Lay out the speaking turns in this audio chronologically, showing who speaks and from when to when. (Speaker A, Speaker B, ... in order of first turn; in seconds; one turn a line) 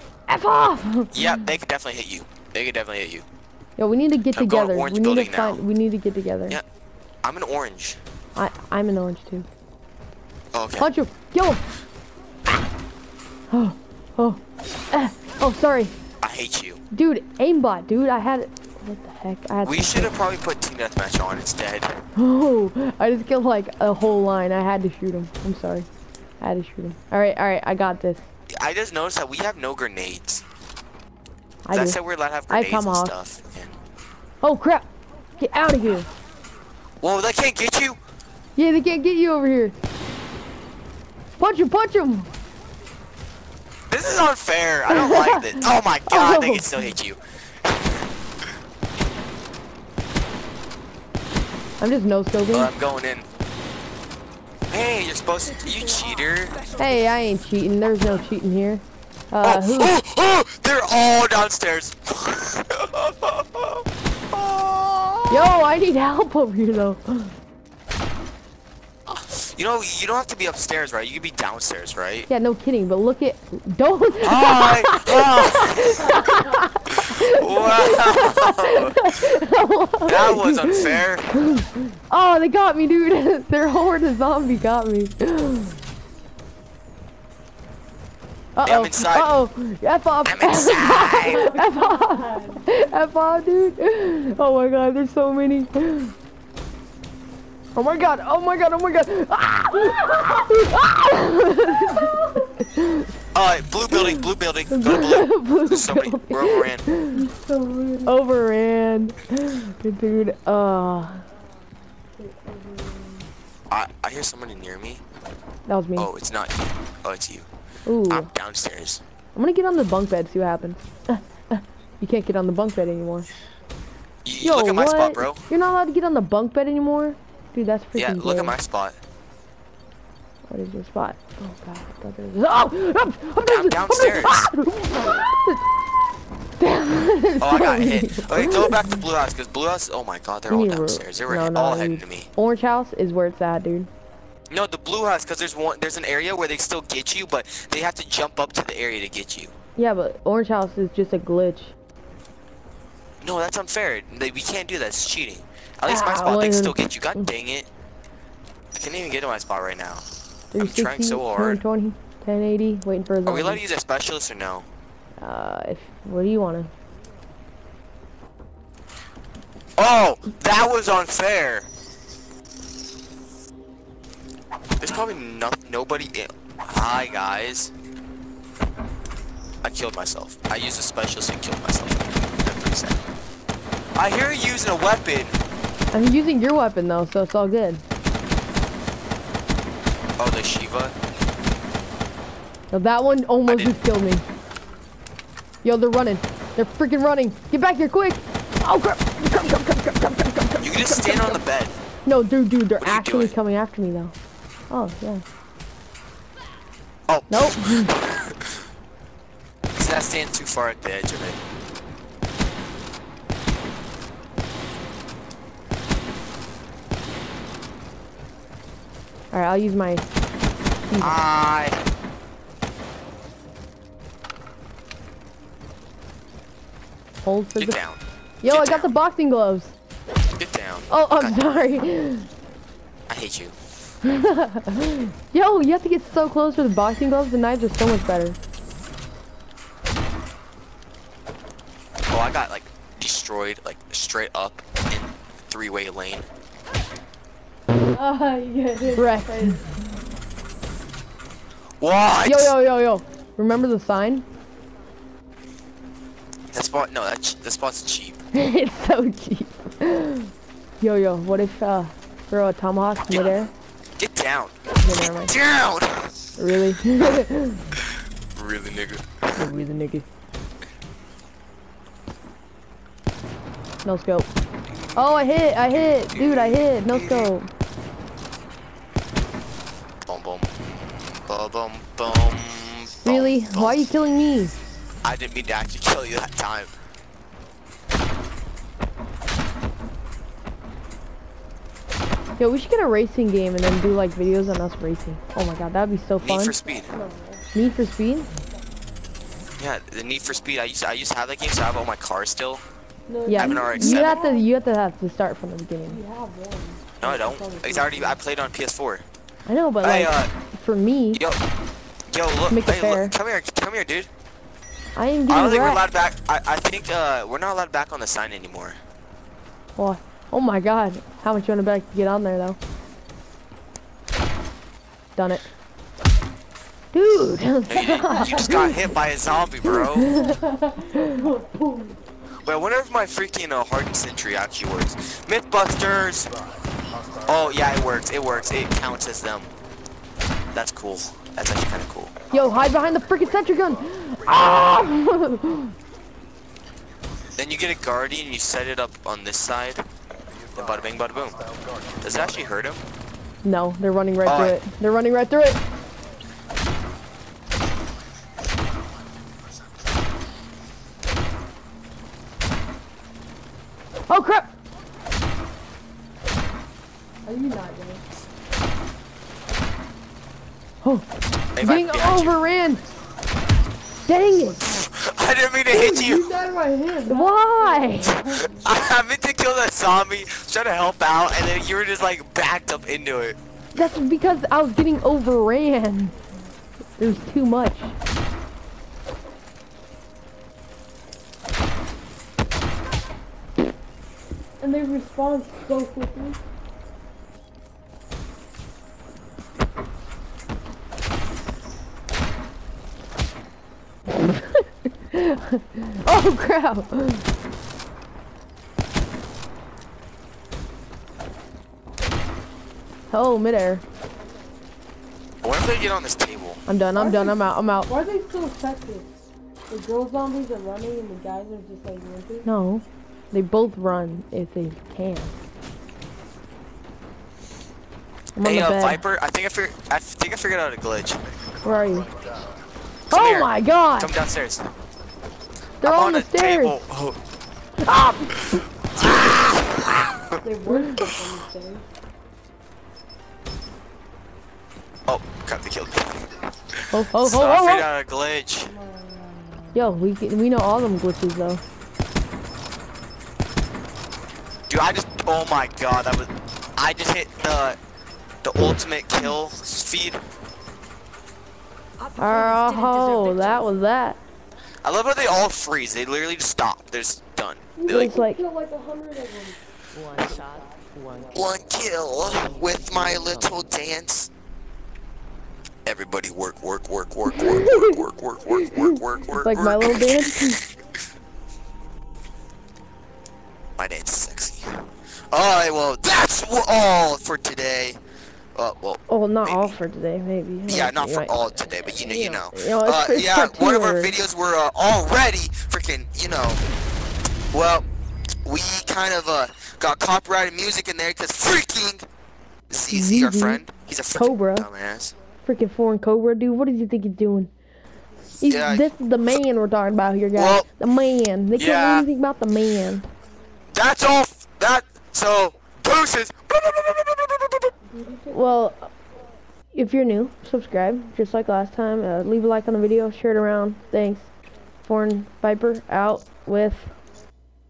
Speaker A: 0.3-1.3
Speaker B: 1.1-3.2
Speaker A: 3.8-6.6
Speaker B: 4.3-5.6
Speaker B: 7.2-8.0
Speaker A: 8.3-9.5
Speaker B: 10.5-10.9
Speaker A: 10.8-11.6
Speaker A: 13.5-15.9
Speaker B: 16.2-16.8
Speaker A: 16.9-20.1
Speaker B: 19.6-21.9
Speaker A: 22.1-25.9
Speaker A: 26.4-28.3
Speaker B: 28.5-30.4
Speaker A: 31.6-32.0
Speaker B: 31.7-33.7
Speaker A: 32.5-33.2
Speaker A: 34.4-36.1
Speaker B: 37.0-38.0
Speaker A: 38.5-39.8
Speaker A: 41.4-42.3
Speaker B: 43.9-47.2
Speaker A: 44.9-46.9
Speaker A: 51.8-52.7
Speaker B: 52.5-53.3
Speaker B: 54.7-56.6
Speaker A: 56.8-60.0
Speaker B: 59.4-65.6
Speaker A: 65.3-67.3
Speaker B: 69.1-72.3
Speaker A: 72.3-85.8
Speaker B: 74.2-76.2
Speaker B: 77.0-79.2
Speaker B: 80.0-81.3
Speaker A: 88.5-96.1
Speaker B: 88.6-89.3
Speaker B: 90.2-91.5
Speaker C: 91.2-92.6
Speaker A: 97.7-103.1
Speaker C: 102.0-102.4
Speaker B: 103.3-106.8
Speaker A: 103.9-107.2
Speaker C: 107.1-108.1
Speaker A: 108.0-111.2
Speaker C: 112.1-113.3
Speaker B: 113.7-115.0
Speaker A: 115.7-116.1
Speaker B: 116.0-117.5
Speaker A: 117.8-118.3
Speaker B: 118.1-119.0
Speaker A: 119.3-123.3
Speaker B: 124.2-125.4
Speaker A: 124.4-128.5
Speaker B: 127.9-129.0
Speaker A: 130.5-135.6
Speaker B: 133.4-134.5
Speaker A: 136.6-138.9
Speaker B: 137.4-142.3
Speaker A: 140.5-143.9
Speaker B: 144.5-149.5
Speaker A: 149.8-151.7
Speaker B: 153.2-157.7
Speaker A: 155.8-157.3
Speaker B: 158.7-160.1
Speaker A: 160.5-163.6
Speaker B: 160.6-161.6
Speaker B: 163.2-164.7
Speaker A: 165.2-166.7
Speaker B: 169.8-171.7
Speaker B: 174.8-177.7
Speaker B: 179.6-183.0
Speaker B: 183.9-185.4
Speaker A: 185.9-187.8
Speaker B: 190.2-190.9
Speaker A: 192.7-194.2
Speaker B: 193.4-193.7
Speaker A: 195.6-201.4
Speaker B: 200.6-201.7
Speaker A: 202.1-204.1
Speaker B: 202.8-203.3
Speaker A: 204.7-205.2
Speaker B: 207.1-208.5
Speaker A: 207.3-207.9
Speaker B: 209.8-211.4
Speaker A: 219.3-220.1
Speaker A: 220.9-221.2
Speaker B: 221.0-221.8
Speaker A: 227.2-227.8
Speaker B: 227.6-228.9
Speaker A: 228.4-229.7
Speaker B: 230.4-231.5
Speaker A: 230.9-232.3
Speaker B: 233.1-233.5
Speaker A: 234.0-238.4
Speaker B: 242.1-246.2
Speaker C: 247.9-249.8
Speaker A: 248.9-249.6
Speaker B: 251.8-252.5
Speaker A: 252.2-254.2
Speaker B: 256.5-258.2
Speaker A: 258.3-263.5
Speaker B: 263.1-263.3
Speaker B: 264.0-266.1
Speaker A: 264.8-265.3
Speaker A: 266.4-267.6
Speaker B: 268.3-269.3
Speaker A: 269.4-270.1
Speaker A: 273.8-274.3
Speaker B: 274.7-277.3
Speaker A: 274.9-277.5
Speaker B: 280.1-280.5
Speaker B: 281.3-283.8
Speaker A: 283.0-284.5
Speaker B: 285.0-286.7
Speaker A: 292.4-296.5
Speaker B: 296.2-296.9
Speaker C: 296.7-297.4
Speaker A: 297.5-298.3
Speaker B: 299.6-302.6
Speaker C: 303.1-304.5
Speaker A: 303.3-306.0
Speaker B: 303.3-304.2
Speaker C: 305.9-308.2
Speaker B: 307.0-309.0
Speaker A: 309.5-311.2
Speaker B: 309.8-310.3
Speaker B: 311.1-311.4
Speaker B: 312.1-314.1
Speaker A: 312.5-313.1
Speaker A: 314.9-315.9
Speaker B: 315.3-318.8
Speaker A: 319.8-322.6
Speaker A: 325.1-325.5
Speaker A: 326.9-328.7
Speaker B: 327.7-330.1
Speaker A: 329.6-330.4
Speaker C: 330.1-332.0
Speaker B: 332.4-336.3
Speaker B: 337.2-339.5
Speaker B: 340.5-342.1
Speaker A: 342.3-345.7
Speaker B: 347.4-349.8
Speaker B: 350.5-351.4
Speaker B: 352.0-352.8
Speaker A: 353.4-355.6
Speaker B: 354.2-354.6
Speaker A: 364.1-364.5
Speaker C: 367.2-368.0
Speaker B: 371.6-372.4
Speaker A: 371.6-372.8
Speaker A: 374.1-374.8
Speaker B: 374.8-376.3
Speaker C: 375.7-378.7
Speaker A: 377.1-378.2
Speaker B: 378.4-383.4
Speaker A: 383.7-386.1
Speaker A: 387.0-387.9
Speaker C: 394.6-396.4
Speaker A: 404.2-407.2
Speaker A: 413.1-413.8
Speaker B: 415.4-416.6
Speaker A: 416.7-417.9
Speaker C: 416.9-419.1
Speaker C: 419.7-422.5
Speaker A: 422.4-425.4
Speaker A: 428.3-429.0
Speaker B: 428.4-431.2
Speaker A: 431.6-432.1
Speaker B: 433.1-434.7
Speaker A: 433.1-434.1
Speaker A: 435.8-436.8
Speaker B: 435.8-437.2
Speaker A: 437.8-439.1
Speaker B: 438.5-440.4
Speaker C: 440.4-441.9
Speaker A: 440.7-441.1
Speaker B: 445.1-446.2
Speaker A: 446.9-447.9
Speaker B: 447.1-448.7
Speaker C: 448.6-449.8
Speaker A: 449.7-451.6
Speaker B: 454.7-457.8
Speaker B: 458.4-460.2
Speaker D: 462.0-463.6
Speaker A: 462.2-464.2
Speaker B: 464.8-468.1
Speaker C: 467.8-469.6
Speaker A: 467.9-468.4
Speaker D: 469.9-471.4
Speaker C: 470.2-470.8
Speaker B: 471.3-474.3
Speaker D: 472.4-473.6
Speaker B: 475.9-480.7
Speaker A: 477.3-478.0
Speaker A: 478.5-480.6
Speaker B: 483.8-488.0
Speaker B: 488.5-489.8
Speaker A: 489.1-494.1
Speaker B: 490.7-496.6
Speaker B: 497.5-497.8
Speaker B: 498.4-502.1
Speaker B: 502.7-505.1
Speaker A: 502.9-503.6
Speaker A: 504.1-504.7
Speaker A: 505.4-507.5
Speaker A: 508.4-513.1
Speaker B: 508.4-509.2
Speaker B: 510.3-510.7
Speaker B: 511.6-512.0
Speaker B: 513.7-517.7
Speaker C: 517.9-518.7
Speaker A: 518.3-518.9
Speaker A: 519.7-524.3
Speaker A: 524.8-526.9